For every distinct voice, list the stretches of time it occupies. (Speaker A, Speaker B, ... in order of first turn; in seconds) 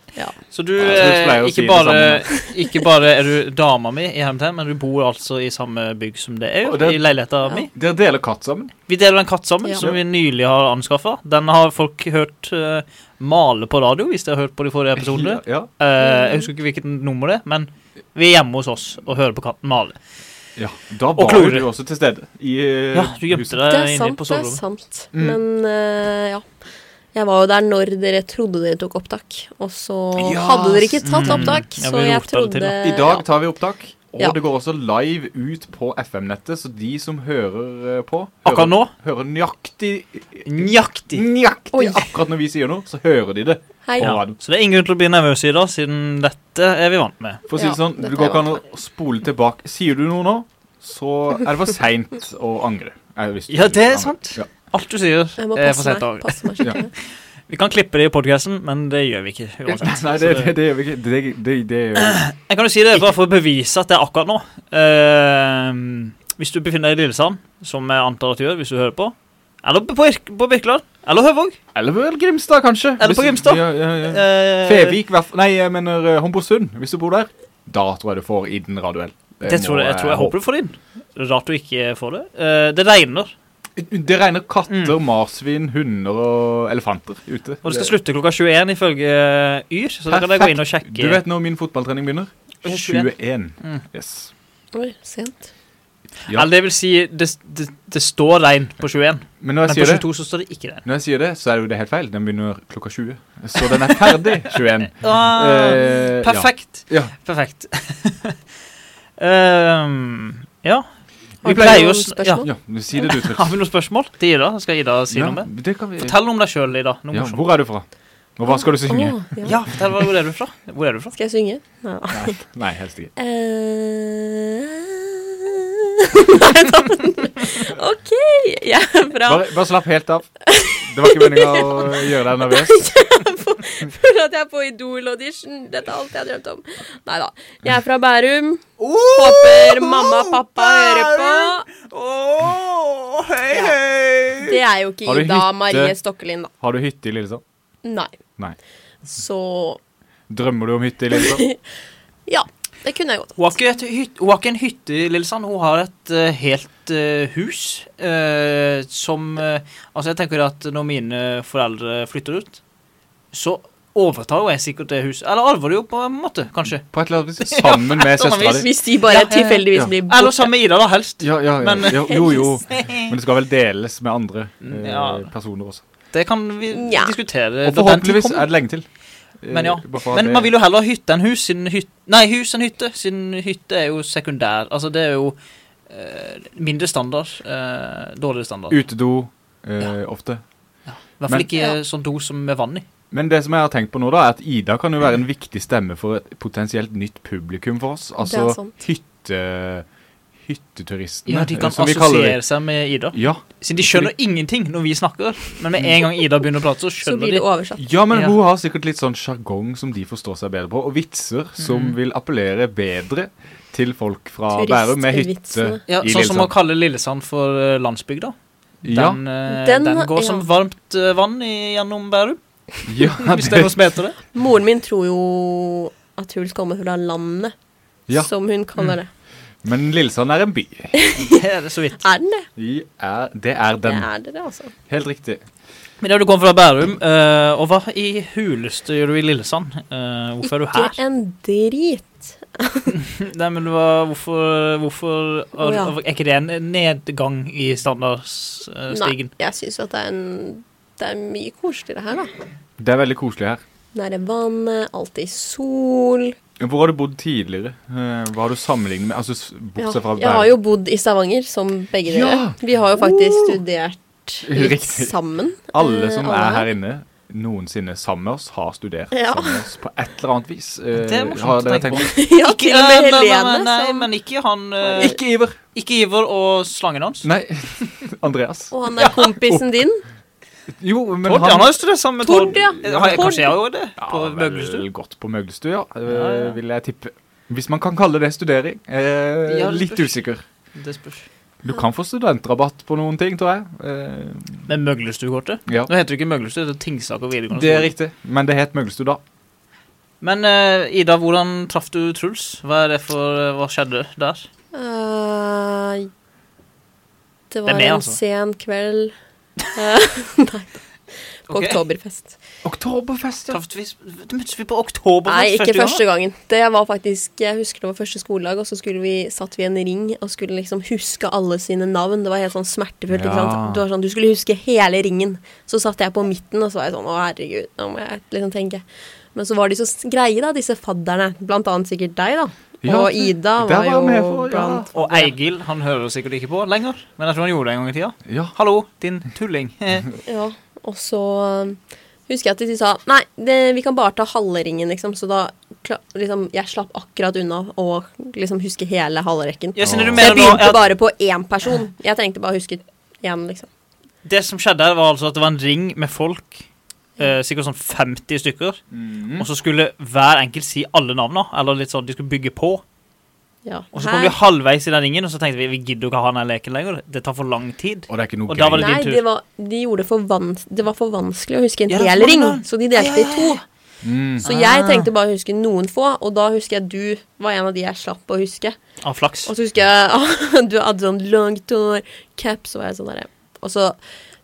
Speaker A: 0.5-7.7, 8.9-20.0, 21.1-21.7, 22.9-24.6, 31.0-32.7, 38.5-38.9, 40.5-41.3, 44.0-47.4, 53.5-56.8, 57.5-60.5, 62.0-71.6, 73.0-75.0, 79.4-83.3, 84.7-85.0, 87.6-91.2, 92.6-93.8, 96.3-100.8, 103.8-108.4, 109.2-110.9, 111.4-117.5, 119.4-121.2, 138.9-139.3, 141.8-144.6, 153.4-162.6, 163.3-166.9, 167.4-173.1, 174.6-175.3, 176.1-178.5, 179.5-185.4, 185.9-188.8, 190.9-192.9, 201.3-207.4, 211.6-211.9, 215.9-218.3, 218.9-222.4, 223.0-224.2, 231.2-232.0, 236.0-241.0, 242.9-249.3, 270.9-275.2, 275.7-277.3, 281.2-284.9, 286.1-286.6, 289.5-290.2, 290.8-291.3, 294.7-297.9, 300.2-304.5, 307.7-308.2, 311.5-311.8, 313.5-316.0, 334.9-340.1, 349.8-350.8, 354.2-356.7, 357.2-358.8, 359.4-362.8, 363.9-369.2, 371.9-373.6, 374.4-375.1, 379.0-379.5
Speaker B: 0.8-2.3, 6.6-8.7, 15.0-15.7, 20.6-23.6, 25.1-25.4, 30.2-31.6, 32.8-40.6, 41.1-44.4, 47.5-54.5, 59.7-62.2, 71.7-80.4, 83.8-87.9, 90.1-94.3, 99.4-100.1, 100.8-107.1, 111.5-111.9, 112.4-113.5, 115.1-116.2, 117.1-117.8, 118.4-119.2, 122.1-123.1, 129.2-132.8, 139.3-140.1, 140.7-141.2, 145.1-145.9, 146.6-147.4, 150.3-151.4, 166.8-168.7, 171.2-175.8, 177.7-178.9, 179.4-180.5, 188.7-190.4, 193.1-199.8, 200.5-202.4, 203.1-204.1, 207.8-216.5, 218.8-219.2, 222.9-223.8, 229.6-230.9, 232.6-234.1, 234.9-235.4, 252.8-253.6, 256.6-260.6, 262.1-263.6, 264.4-265.1, 265.7-272.1, 275.0-275.6, 277.2-279.7, 280.7-281.8, 282.4-283.3, 284.0-290.4, 291.6-294.7, 297.5-299.2, 312.6-313.6, 323.1-323.8, 332.9-334.9, 338.3-338.5, 349.8-350.6, 358.9-359.5, 368.1-368.9, 374.0-374.4
Speaker C: 16.0-16.5, 23.7-26.4, 27.1-33.2, 41.7-42.1, 43.9-44.1, 47.5-48.5, 55.4-56.9, 94.7-95.5, 111.4-112.5, 118.6-119.5, 121.2-122.4, 123.2-129.5, 130.5-141.7, 144.4-146.5, 147.8-148.1, 149.1-149.8, 151.1-151.6, 152.3-153.4, 168.5-170.5, 176.7-177.1, 198.2-198.7, 207.0-207.8, 214.5-215.8, 219.5-220.4, 224.3-227.5, 228.1-229.1, 230.9-231.4, 232.0-232.5, 233.9-234.7, 240.4-242.9, 245.6-245.9, 248.9-252.3, 253.9-256.4, 259.8-266.7, 269.1-269.6, 272.0-274.1, 278.7-280.0, 282.2-283.6, 304.7-306.1, 307.5-309.1, 309.7-310.8, 311.5-312.4, 315.3-328.8, 329.4-335.3, 340.3-353.7, 363.6-364.4, 368.8-373.6, 374.4-378.8, 379.5-384.0